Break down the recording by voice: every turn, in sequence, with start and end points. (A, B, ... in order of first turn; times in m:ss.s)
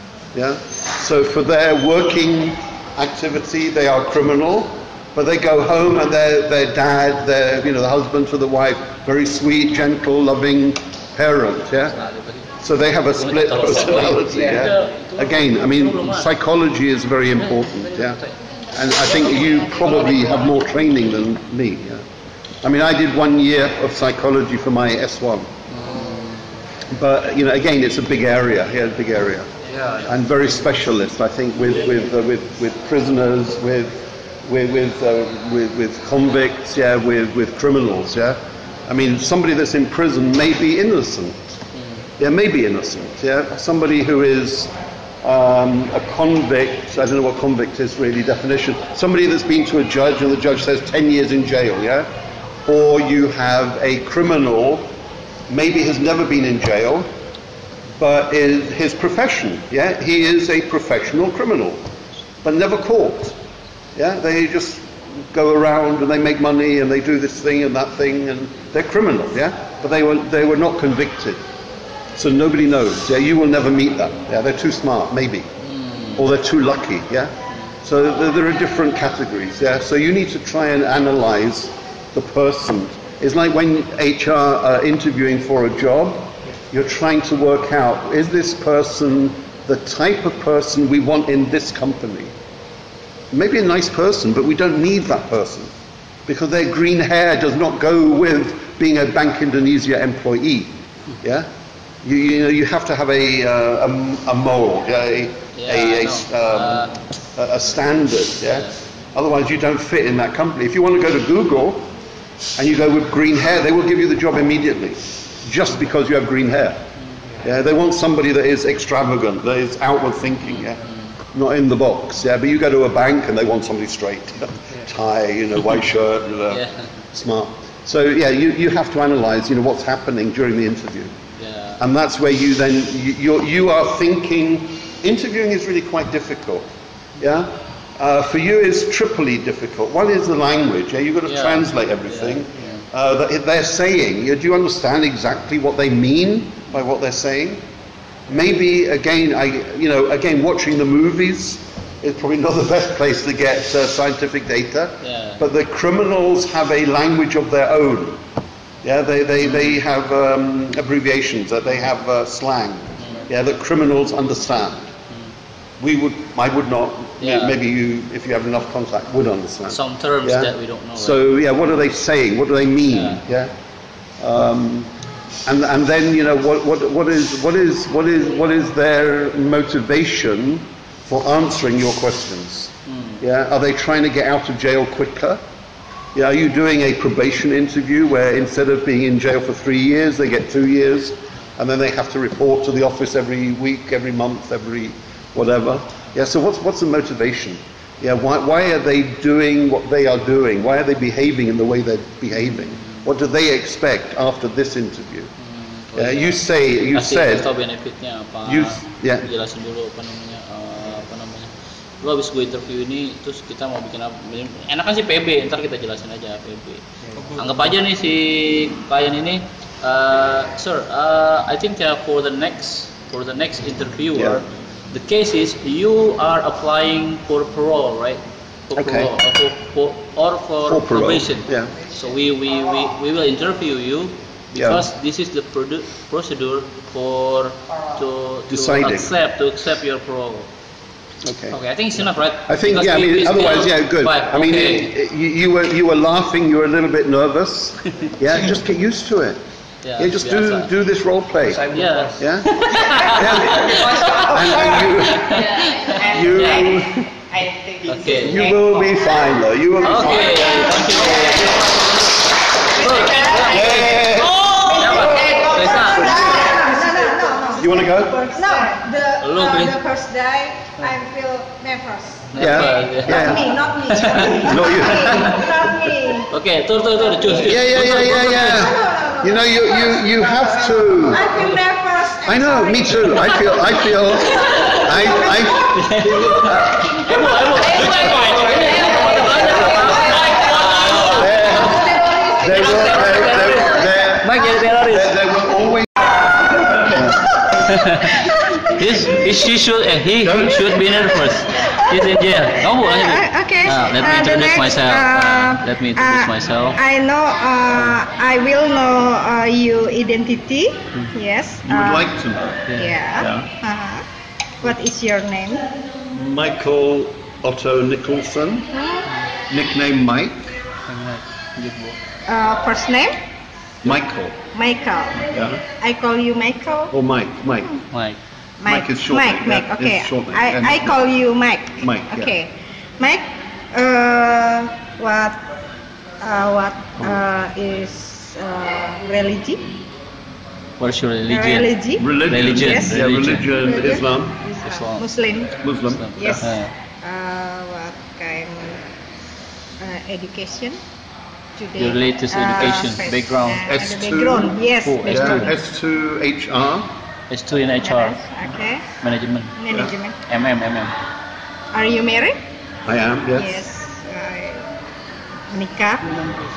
0:00.3-0:12.0 A
0:12.0-0:12.4 B
0:12.6-0:18.2 A
0:13.2-0:16.3 B
0:17.6-0:18.3 B
0:18.7-0:22.0 A
0:22.6-0:25.5 A
0:25.7-0:26.5 B
0:26.9-0:29.5 A
0:29.6-0:30.3 B
0:30.0-0:41.4 A
0:42.2-0:44.7 A
0:45.2-0:52.1 A
0:52.6-0:54.9 A
0:55.5-0:57.1 A
0:58.0-1:01.8 A
1:02.4-1:03.4 A
1:03.9-1:11.4 A
1:12.2-1:15.5 A
1:15.6-1:16.2 B
1:16.1-1:32.3 A
1:33.3-1:35.7 A
1:36.3-1:41.5 A
1:42.0-1:51.9 A
1:45.6-1:46.9 B
1:52.6-1:56.8 A
1:57.4-2:11.1 A
2:06.5-2:06.9 B
2:11.4-2:11.8 B
2:11.8-2:16.7 A
2:17.2-2:27.6 A
2:21.3-2:22.8 B
2:28.3-2:38.2 A
2:35.0-2:35.4 B
2:38.8-2:44.9 A
2:39.4-2:39.8 B
2:43.0-2:43.2 B
2:45.8-2:53.5 A
2:47.2-2:47.6 B
2:49.7-2:51.2 B
2:52.9-2:53.2 B
2:54.2-2:54.9 A
2:55.4-3:05.4 A
3:02.9-3:03.2 B
3:06.1-3:25.3 A
3:22.4-3:23.0 B
3:25.5-4:00.5 B
3:26.0-3:27.5 A
3:28.4-3:29.3 A
3:44.1-3:44.4 A
3:48.8-3:49.1 A
3:50.6-3:51.7 A
3:54.5-3:54.9 A
3:58.5-3:59.1 A
4:01.2-4:01.6 A
4:01.5-4:04.9 B
4:02.4-4:09.4 A
4:09.8-4:10.7 B
4:10.0-4:17.1 A
4:11.7-4:16.7 B
4:15.8-4:19.0 C
4:17.8-4:18.4 B
4:18.1-4:20.9 A
4:19.8-4:26.2 B
4:20.6-4:21.6 C
4:22.8-4:23.8 C
4:23.4-4:25.2 A
4:24.5-4:27.6 C
4:25.1-4:36.3 D
4:25.8-4:26.5 A
4:27.6-4:28.3 A
4:29.2-4:29.8 B
4:32.3-4:35.1 B
4:32.4-4:33.5 A
4:34.2-4:35.7 A
4:36.3-4:38.6 B
4:37.0-4:43.6 D
4:37.4-4:41.3 A
4:42.2-4:48.4 A
4:45.7-4:51.4 B
4:48.6-4:53.1 D
4:51.0-4:57.3 A
4:53.5-4:55.2 B
4:57.6-5:06.8 B
5:00.2-5:00.9 A
5:02.8-5:12.1 D
5:11.6-5:12.6 A
5:12.7-5:12.9 B
5:12.7-5:14.0 D
5:13.2-5:13.5 A
5:14.6-5:15.7 D
5:16.1-5:18.7 A
5:18.7-5:19.1 D
5:19.5-5:20.5 A
5:20.9-5:22.0 B
5:22.3-5:23.2 D
5:23.8-5:24.4 A
5:24.5-5:26.9 D
5:25.3-5:25.6 A
5:26.9-5:27.7 A
5:27.9-5:28.2 B
5:28.6-5:35.4 D
5:28.6-5:31.0 A
5:31.8-5:32.3 A
5:36.2-5:39.8 D
5:40.8-5:43.5 B
5:41.3-5:45.6 D
5:42.0-5:44.4 A
5:44.6-5:45.0 B
5:45.6-5:46.5 A
5:45.9-5:46.7 B
5:46.2-5:48.8 D
5:49.8-5:50.8 D
5:51.6-5:55.6 D
5:51.8-5:53.6 B
5:53.6-5:56.9 A
5:54.8-5:55.5 B
5:57.3-5:58.2 B
5:57.8-5:58.8 D
5:59.0-5:59.5 B
5:59.6-6:00.2 D
5:59.7-5:59.9 A
6:00.3-6:00.9 B
6:01.7-6:02.4 D
6:02.8-6:03.6 A
6:03.3-6:04.6 D
6:05.5-6:06.1 D